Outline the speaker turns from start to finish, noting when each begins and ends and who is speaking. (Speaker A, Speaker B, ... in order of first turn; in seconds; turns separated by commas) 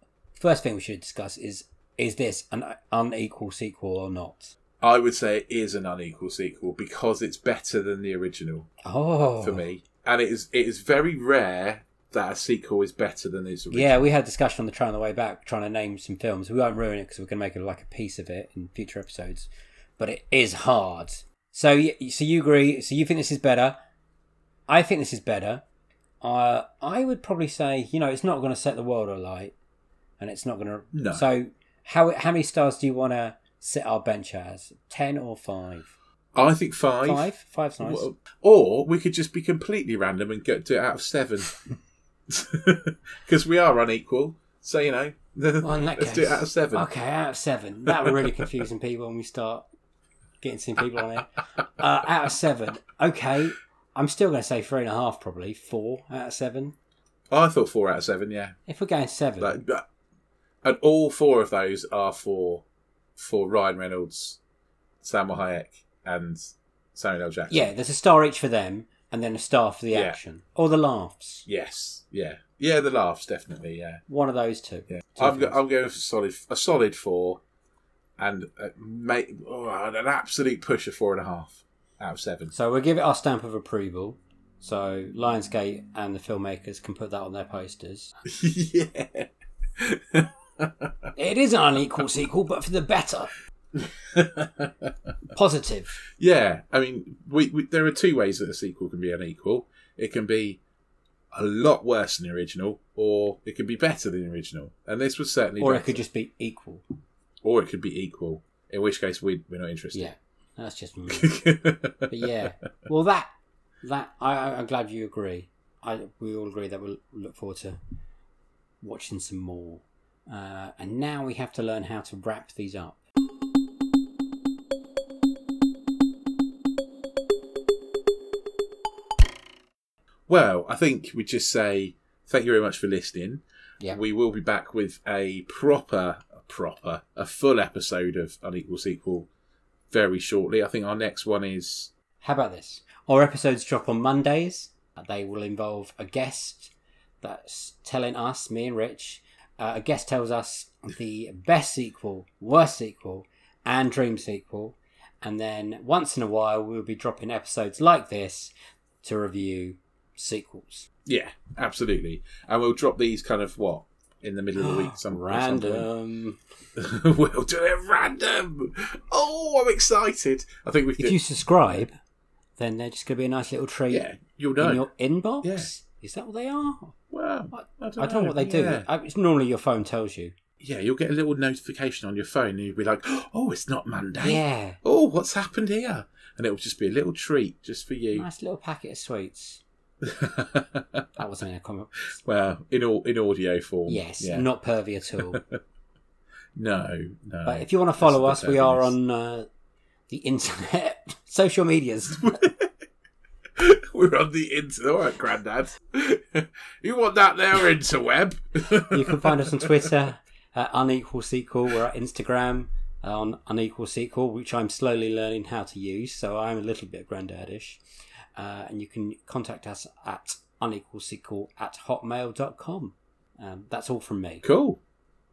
Speaker A: 0.3-4.5, Speaker B: 4.8-8.7, Speaker A: 8.8-9.6, Speaker B: 9.4-14.1, Speaker A: 13.7-23.8, Speaker A: 24.7-25.6, Speaker A: 26.2-29.5, Speaker A: 30.2-35.9, Speaker B: 30.9-31.3, Speaker B: 36.3-41.5, Speaker A: 37.0-38.1, Speaker B: 42.3-46.9, Speaker A: 45.6-49.6, Speaker B: 47.9-48.5, Speaker A: 50.4-56.8, Speaker B: 57.3-58.6, Speaker A: 58.7-59.6, Speaker B: 59.4-59.9, Speaker B: 60.6-62.6, Speaker B: 63.1-64.4, Speaker B: 65.0-67.7, Speaker A: 67.5-71.5, Speaker B: 69.9-70.2, Speaker B: 71.5-74.0, Speaker A: 74.1-75.6, Speaker B: 74.9-77.4, Speaker B: 78.2-82.5, Speaker A: 82.5-88.1, Speaker B: 88.3-90.9, Speaker A: 91.2-93.3, Speaker B: 93.7-94.9, Speaker A: 95.3-96.0, Speaker B: 96.2-100.6, Speaker B: 101.3-106.0, Speaker A: 105.6-106.8, Speaker B: 107.4-110.1, Speaker A: 109.9-111.3, Speaker B: 111.1-112.3, Speaker A: 112.1-113.3, Speaker A: 113.8-117.8, Speaker A: 118.8-123.0, Speaker B: 130.3-139.3, Speaker B: 139.9-141.9, Speaker A: 142.2-158.5, Speaker A: 159.0-160.9, Speaker B: 161.1-165.9, Speaker A: 164.5-166.4, Speaker B: 166.8-171.2, Speaker A: 171.0-172.0, Speaker A: 172.6-176.9, Speaker B: 173.9-174.8, Speaker B: 175.4-175.7, Speaker B: 177.1-178.9, Speaker A: 177.5-180.3, Speaker B: 180.6-188.2, Speaker A: 184.2-184.8, Speaker A: 188.1-189.6, Speaker B: 190.0-191.1, Speaker A: 191.2-192.2, Speaker B: 192.2-194.4, Speaker A: 193.9-195.4, Speaker B: 195.2-195.6, Speaker B: 196.5-198.9, Speaker A: 197.4-199.5, Speaker A: 200.1-202.3, Speaker B: 202.2-202.7, Speaker B: 203.6-209.9, Speaker A: 208.9-217.8, Speaker A: 218.3-224.4, Speaker B: 224.4-224.8